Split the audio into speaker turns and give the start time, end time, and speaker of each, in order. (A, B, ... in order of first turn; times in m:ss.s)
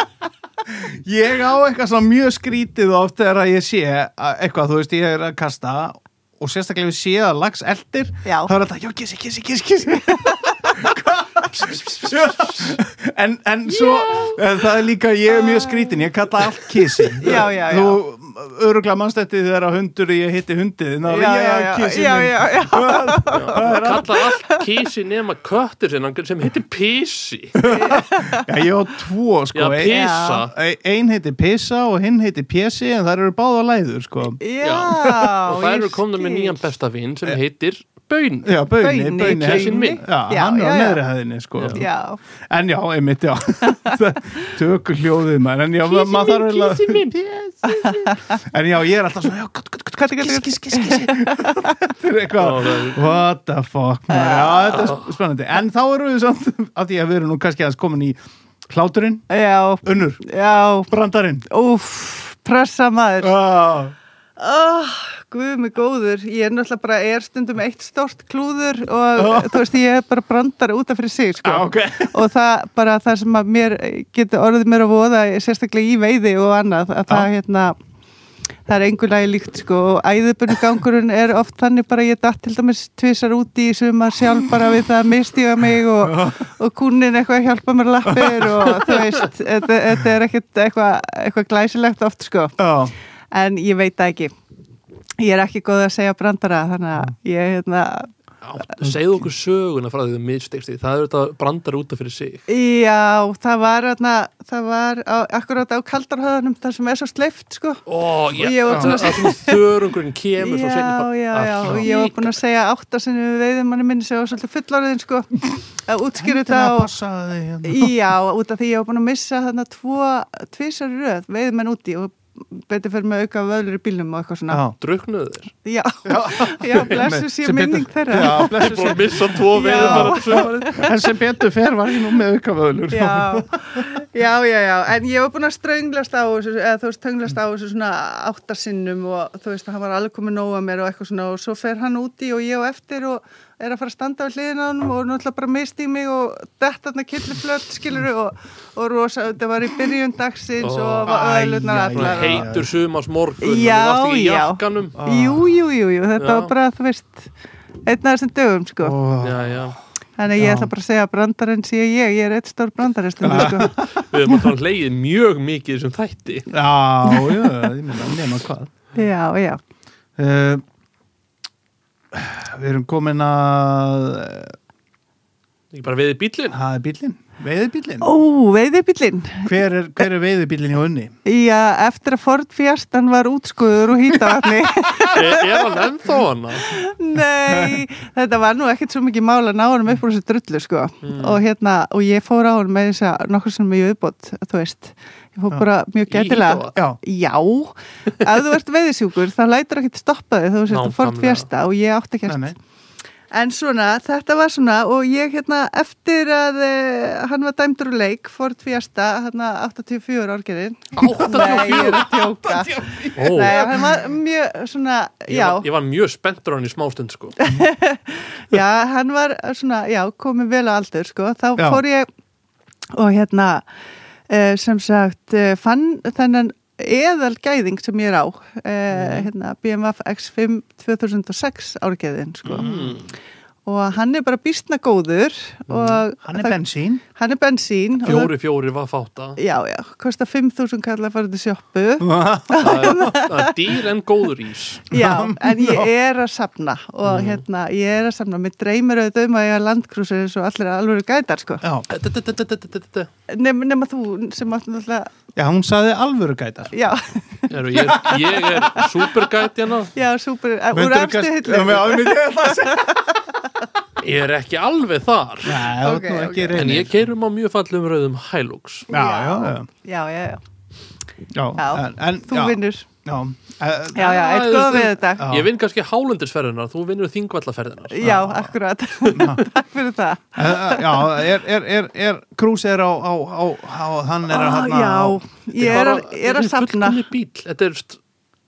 0:00.7-0:24.1 A
0:08.3-0:08.5 B
0:10.1-0:10.5 B
0:11.5-0:12.8 C
0:14.0-0:14.4 B
0:15.3-0:16.0 B
0:17.2-0:18.0 B
0:21.1-0:24.6 B
0:23.3-0:27.7 C
0:27.6-0:34.4 A
0:27.7-0:28.5 B
0:29.5-0:30.5 C
0:29.9-0:30.4 B
0:34.4-0:36.6 B
0:34.6-0:38.6 C
0:35.0-0:35.3 A
0:38.4-0:41.9 A
0:38.8-0:41.0 B
0:39.1-0:40.1 C
0:41.7-0:42.2 B
0:42.5-0:59.3 A
0:43.7-0:44.0 B
0:45.8-0:47.2 C
0:47.7-0:48.2 B
0:50.0-0:51.7 B
0:52.4-0:53.0 C
0:54.1-0:55.0 B
0:54.7-0:55.0 C
0:59.3-1:00.9 B
0:59.8-1:00.2 A
1:00.9-1:01.4 A
1:01.5-1:03.4 B
1:03.2-1:03.9 A
1:04.4-1:17.8 B
1:09.2-1:09.7 A
1:11.4-1:12.2 A
1:18.7-1:32.6 B
1:26.0-1:26.4 A
1:28.0-1:28.9 A
1:32.6-1:32.9 A
1:33.3-1:34.3 B
1:35.2-1:38.1 B
1:38.4-1:42.4 C
1:42.5-1:47.8 B
1:47.9-1:52.4 C
1:48.4-1:49.6 B
1:48.7-1:49.1 A
1:50.4-1:56.9 B
1:56.2-1:58.0 A
1:57.7-2:04.6 B
2:04.5-2:04.8 A
2:04.8-2:05.5 C
2:05.6-2:10.9 B
2:06.1-2:13.8 A
2:06.7-2:07.1 C
2:08.1-2:11.0 C
2:12.9-2:32.6 B
2:30.6-2:31.1 C
2:31.0-2:32.7 A
2:31.7-2:35.0 C
2:33.4-2:37.3 B
2:35.0-2:35.5 A
2:36.2-2:36.5 C
2:37.9-2:39.0 B
2:38.8-2:39.7 A
2:39.2-2:39.8 C
2:40.2-2:43.8 B
2:40.4-2:40.7 A
2:43.2-2:44.4 A
2:43.3-2:46.5 C
2:46.5-2:48.7 A
2:47.1-2:47.6 B
2:48.9-2:49.6 B
2:50.2-2:50.6 A
2:52.1-2:54.6 A
2:55.7-2:56.6 C
2:56.5-2:58.1 A
2:58.0-2:59.5 B
2:59.4-3:01.2 A
3:01.3-3:05.8 B
3:04.1-3:05.3 A
3:05.1-3:06.7 C
3:06.6-3:22.5 B
3:07.4-3:07.9 A
3:11.0-3:11.4 C
3:16.1-3:16.8 C
3:20.7-3:21.4 C
3:22.3-3:22.6 A
3:23.3-3:35.7 B
3:31.0-3:32.2 C
3:31.0-3:34.0 A
3:33.2-3:33.7 C
3:35.3-3:37.4 C
3:37.4-3:42.1 B
3:41.6-3:41.8 A
3:42.9-3:43.7 B
3:44.3-3:52.7 B
3:48.9-3:49.3 C
3:52.4-3:53.0 A
3:52.6-3:53.1 C
3:53.7-3:56.6 B
3:55.7-3:56.0 C
3:56.2-3:57.0 A
3:57.2-3:58.3 B
3:58.0-3:59.4 C
3:59.4-4:03.5 B
4:02.0-4:03.2 A
4:02.6-4:04.9 C
4:04.9-4:11.6 B
4:04.9-4:05.9 A
4:07.0-4:07.4 C
4:11.6-4:11.9 A
4:11.9-4:13.1 C
4:13.3-4:15.1 B
4:15.4-4:16.7 A
4:16.7-4:18.6 B
4:17.5-4:19.9 C
4:17.7-4:18.3 A
4:20.0-4:23.1 B
4:20.7-4:23.1 A
4:24.0-4:25.7 C
4:25.4-4:27.1 A
4:25.8-4:26.8 B
4:26.5-4:28.9 C
4:28.9-4:30.4 B
4:28.9-4:29.7 A
4:31.3-4:34.3 A
4:31.6-4:32.9 B
4:34.0-4:35.3 B
4:34.0-4:38.1 C
4:35.2-4:35.5 A
4:37.9-4:41.3 B
4:38.0-4:38.5 A
4:39.1-4:39.4 A
4:40.4-4:45.8 A
4:44.3-4:47.0 B
4:45.6-4:48.0 C